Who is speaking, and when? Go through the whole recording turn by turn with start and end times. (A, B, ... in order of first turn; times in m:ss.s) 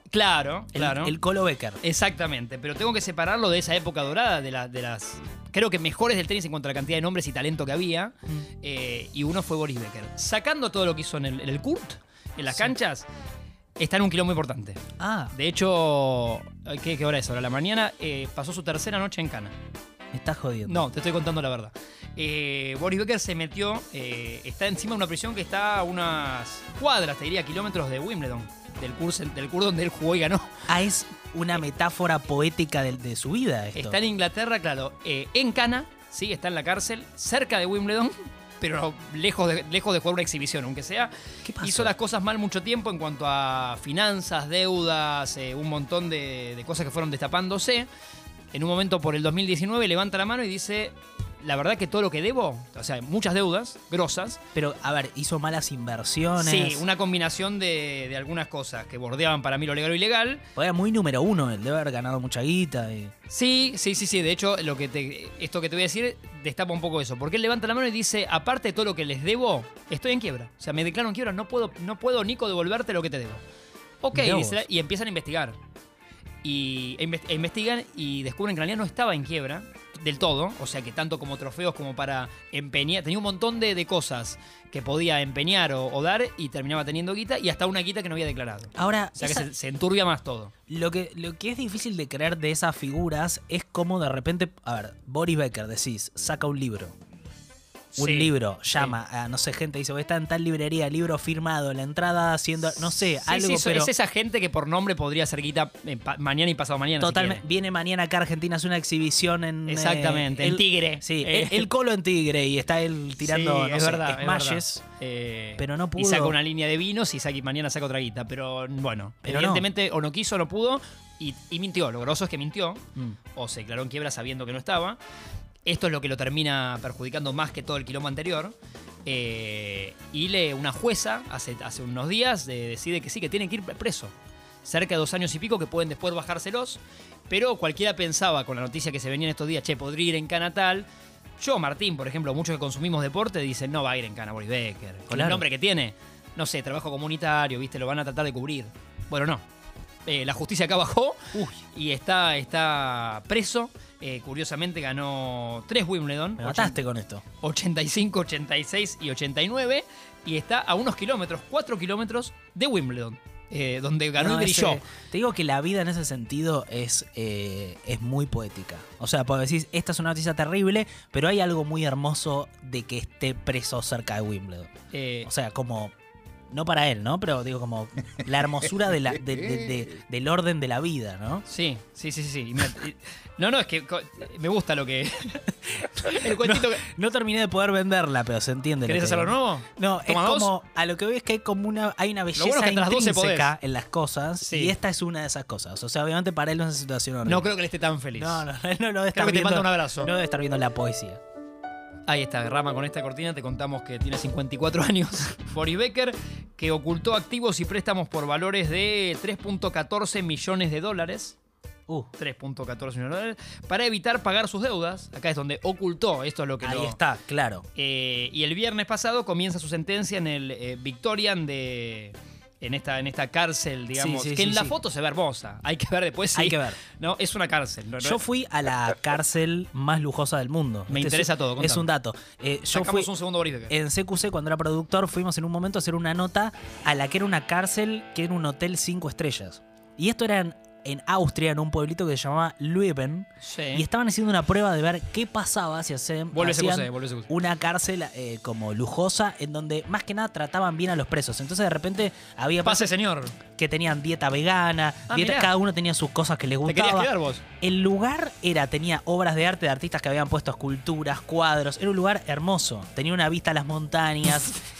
0:00.1-0:01.2 A
0:00.8-0:01.8 B
0:01.8-0:13.1 A
0:13.8-0:19.5 A
0:15.0-0:15.4 B
0:20.1-0:20.9 B
0:20.7-0:30.6 A
0:30.7-0:34.0 B
0:33.8-0:47.9 A
0:41.4-0:41.9 B
0:48.5-0:54.4 A
0:54.6-0:56.8 B
0:56.4-1:00.4 A
1:00.6-1:03.1 B
1:03.3-1:13.4 A
1:14.0-1:15.6 A
1:14.1-1:14.6 B
1:16.4-1:30.5 A
1:28.8-1:29.5 B
1:30.7-1:37.0 B
1:38.0-1:39.0 A
1:38.0-1:43.9 B
1:42.7-1:47.4 A
1:47.0-1:54.8 B
1:49.7-1:51.7 A
1:53.2-2:02.8 A
1:55.6-1:56.4 B
1:59.2-1:59.7 B
2:03.3-2:05.0 A
2:05.6-2:08.6 A
2:09.1-2:14.1 A
2:14.6-2:20.9 A
2:21.4-2:29.4 A
2:25.1-2:25.4 B
2:30.1-2:36.8 A
2:31.3-2:31.6 B
2:36.4-2:37.2 B
2:37.4-2:44.8 A
2:44.2-2:54.7 B
2:54.9-2:55.3 A
2:55.2-2:55.9 B
2:56.5-3:01.4 B
3:01.5-3:06.9 A
3:05.7-3:17.5 B
3:08.9-3:10.5 A
3:12.4-3:13.5 A
3:14.4-3:14.8 A
3:17.2-3:18.5 A
3:18.2-3:21.2 B
3:19.1-3:20.1 A
3:22.1-3:31.4 A
3:32.2-3:37.0 A
3:36.6-3:37.6 B
3:37.8-3:48.2 A
3:44.0-3:44.7 B
3:46.3-3:46.8 B
3:48.0-3:53.1 B
3:50.9-3:51.9 A
3:52.7-3:53.7 A
3:53.7-4:12.9 B
4:03.4-4:03.8 A
4:06.3-4:07.3 A
4:12.6-4:13.4 A
4:13.6-4:17.1 B
4:15.1-4:15.5 A
4:16.7-4:17.4 A
4:17.6-4:24.5 B